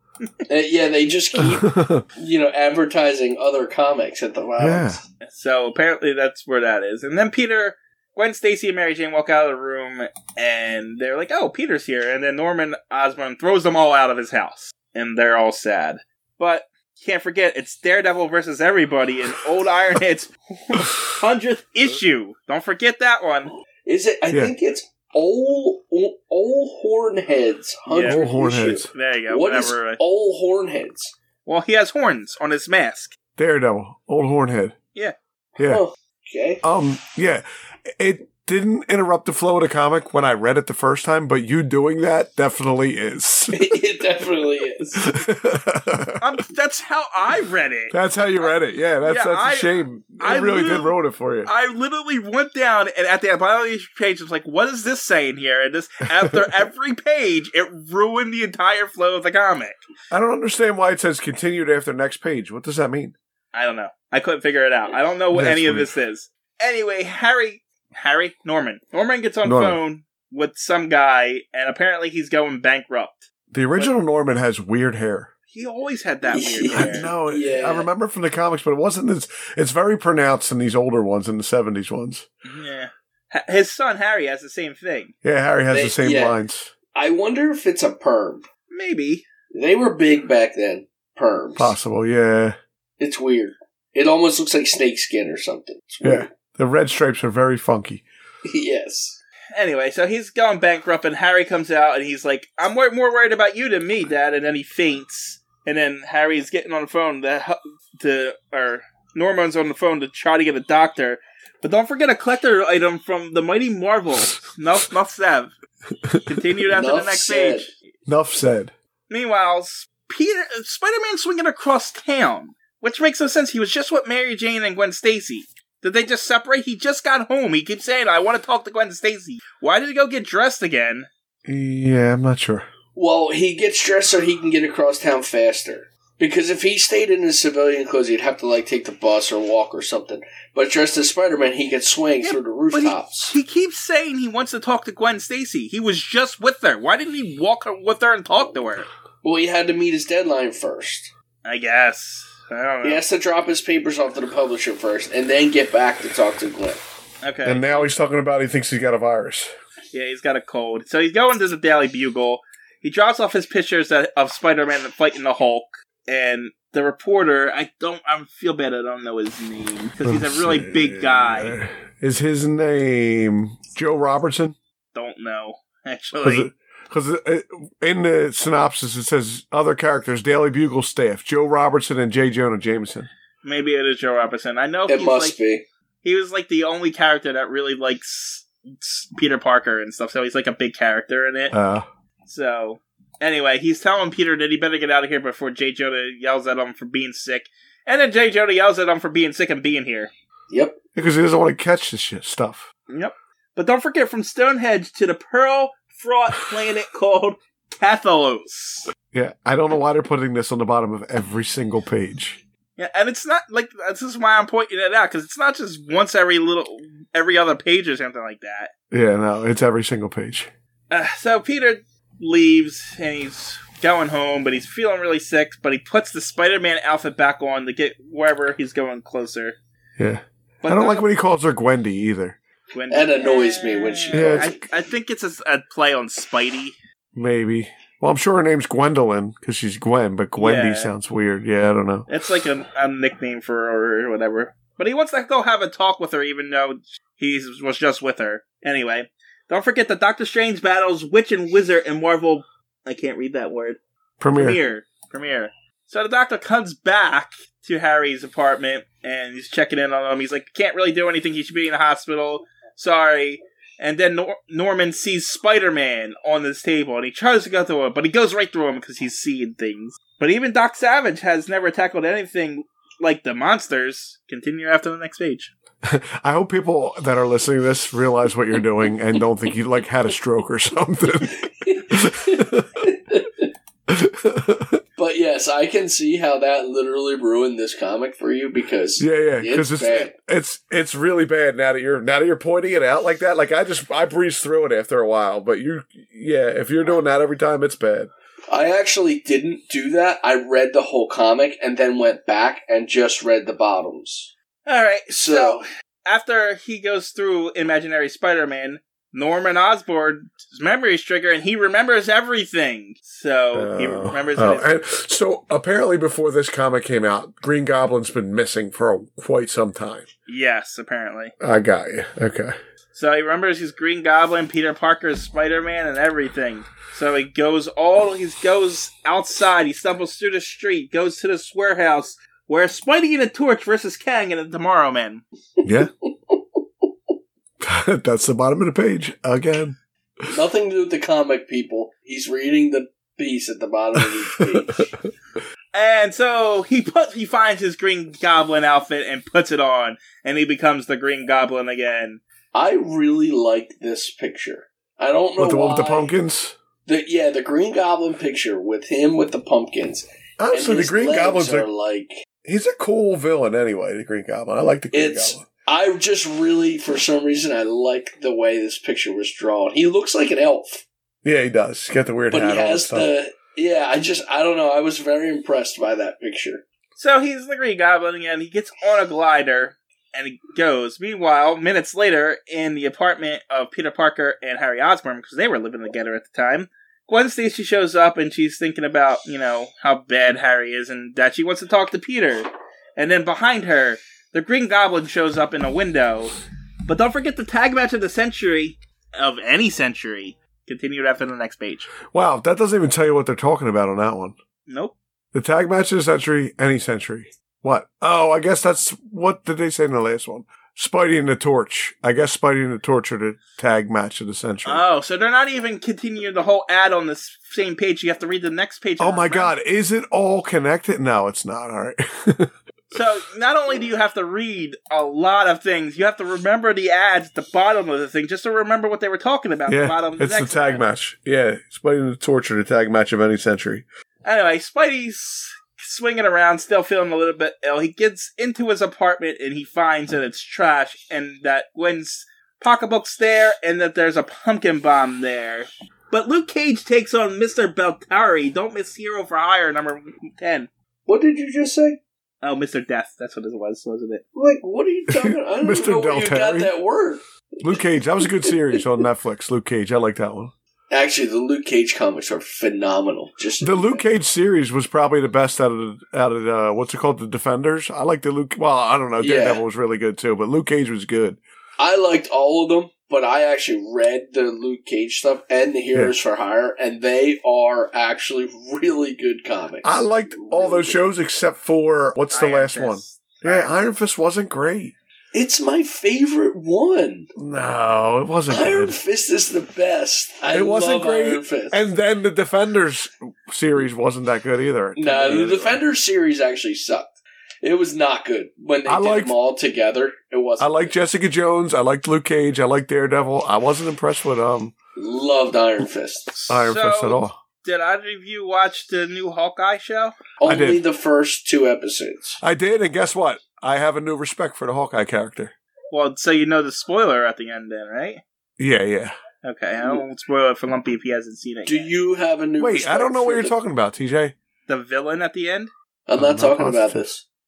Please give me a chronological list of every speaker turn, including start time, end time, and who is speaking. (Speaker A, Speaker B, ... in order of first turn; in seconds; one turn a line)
Speaker A: 0.5-5.0
Speaker B: 1.4-2.0
Speaker B: 4.6-5.0
Speaker C: 5.2-23.5
Speaker A: 23.8-31.1
Speaker C: 27.9-30.0
Speaker B: 28.0-28.9
Speaker C: 31.4-33.1
Speaker B: 33.4-34.8
Speaker B: 35.6-35.8
Speaker A: 35.6-36.6
Speaker B: 36.6-37.4
Speaker B: 38.0-43.8
Speaker A: 43.5-45.1
Speaker B: 45.0-46.2
Speaker C: 46.2-48.5
Speaker B: 47.9-51.5
Speaker C: 49.0-59.8
Speaker B: 60.1-63.1
Speaker C: 63.5-73.9
Speaker B: 65.3-65.9
Speaker B: 69.4-69.8
Speaker B: 73.5-75.3
Speaker C: 75.5-77.1
Speaker A: 76.3-77.9
Speaker B: 76.7-82.2
Speaker C: 82.4-85.1
Speaker B: 85.2-86.7
Speaker A: 85.7-86.4
Speaker A: 86.9-88.5
Speaker C: 88.7-89.2
Speaker A: 89.5-91.7
Speaker B: 91.5-92.5
Speaker A: 93.0-96.3
Speaker B: 96.0-98.0
Speaker A: 98.4-99.2
Speaker C: 99.5-115.5
Speaker C: 116.2-117.8
Speaker A: 116.7-117.7
Speaker B: 118.1-118.7
Speaker C: 119.1-131.1
Speaker B: 131.4-132.7
Speaker A: 132.9-143.3
Speaker C: 142.2-148.9
Speaker A: 149.2-151.1
Speaker C: 151.4-153.0
Speaker A: 152.8-156.8
Speaker C: 157.2-157.9
Speaker B: 157.4-159.5
Speaker C: 159.9-171.6
Speaker B: 170.0-174.6
Speaker C: 174.9-176.5
Speaker B: 176.2-183.1
Speaker C: 183.4-185.3
Speaker A: 184.9-185.6
Speaker C: 186.0-191.5
Speaker B: 191.5-191.8
Speaker C: 192.3-200.1
Speaker A: 200.5-200.8
Speaker B: 200.9-202.7
Speaker C: 202.9-208.9
Speaker B: 209.1-212.4
Speaker C: 212.8-218.7
Speaker B: 218.9-220.5
Speaker C: 220.9-229.6
Speaker B: 230.0-232.4
Speaker C: 230.6-231.0
Speaker C: 232.7-236.7
Speaker A: 232.9-234.6
Speaker B: 234.1-234.5
Speaker B: 237.1-242.1
Speaker C: 240.4-240.9
Speaker C: 242.1-253.8
Speaker B: 254.2-254.6
Speaker C: 254.3-275.5
Speaker B: 275.8-282.9
Speaker A: 281.4-283.5
Speaker B: 283.9-284.8
Speaker A: 285.0-290.1
Speaker B: 289.0-298.1
Speaker A: 298.5-304.3
Speaker C: 304.6-314.7
Speaker A: 305.1-305.6
Speaker B: 313.5-320.1
Speaker C: 320.3-321.3
Speaker B: 321.4-322.5
Speaker C: 322.9-335.2
Speaker B: 335.6-335.9
Speaker B: 337.6-340.2
Speaker A: 340.3-344.9
Speaker B: 344.0-344.6
Speaker C: 345.7-352.2
Speaker A: 352.5-356.1
Speaker B: 355.4-356.6
Speaker A: 356.9-362.2
Speaker B: 360.4-361.7
Speaker B: 362.4-365.4
Speaker A: 364.9-370.8
Speaker B: 371.2-373.1
Speaker A: 372.3-376.6
Speaker C: 376.9-401.9
Speaker B: 402.1-404.4
Speaker C: 404.7-404.9
Speaker B: 405.3-414.8
Speaker C: 414.6-419.5
Speaker B: 419.0-422.5
Speaker C: 422.9-430.8
Speaker B: 429.7-433.9
Speaker C: 434.2-450.7
Speaker A: 451.1-452.0
Speaker C: 452.4-454.2
Speaker A: 454.3-458.8
Speaker B: 455.1-456.7
Speaker B: 457.6-460.5
Speaker A: 460.9-464.0
Speaker B: 463.6-471.4
Speaker A: 469.2-469.6
Speaker A: 471.8-481.0
Speaker B: 479.8-484.9
Speaker C: 482.3-483.7
Speaker A: 485.3-487.3
Speaker B: 487.4-489.0
Speaker A: 488.5-491.8
Speaker B: 490.5-495.8
Speaker A: 494.9-497.1
Speaker A: 497.6-500.9
Speaker B: 498.9-499.3
Speaker B: 500.6-504.7
Speaker A: 504.9-506.3
Speaker C: 506.3-510.1
Speaker B: 506.5-507.4
Speaker A: 510.4-512.4
Speaker B: 510.4-510.8
Speaker B: 512.4-515.5
Speaker C: 515.9-518.2
Speaker B: 518.6-519.1
Speaker C: 519.4-521.9
Speaker A: 521.6-523.5
Speaker B: 522.6-524.3
Speaker C: 524.7-525.7
Speaker A: 526.1-527.2
Speaker B: 526.2-527.1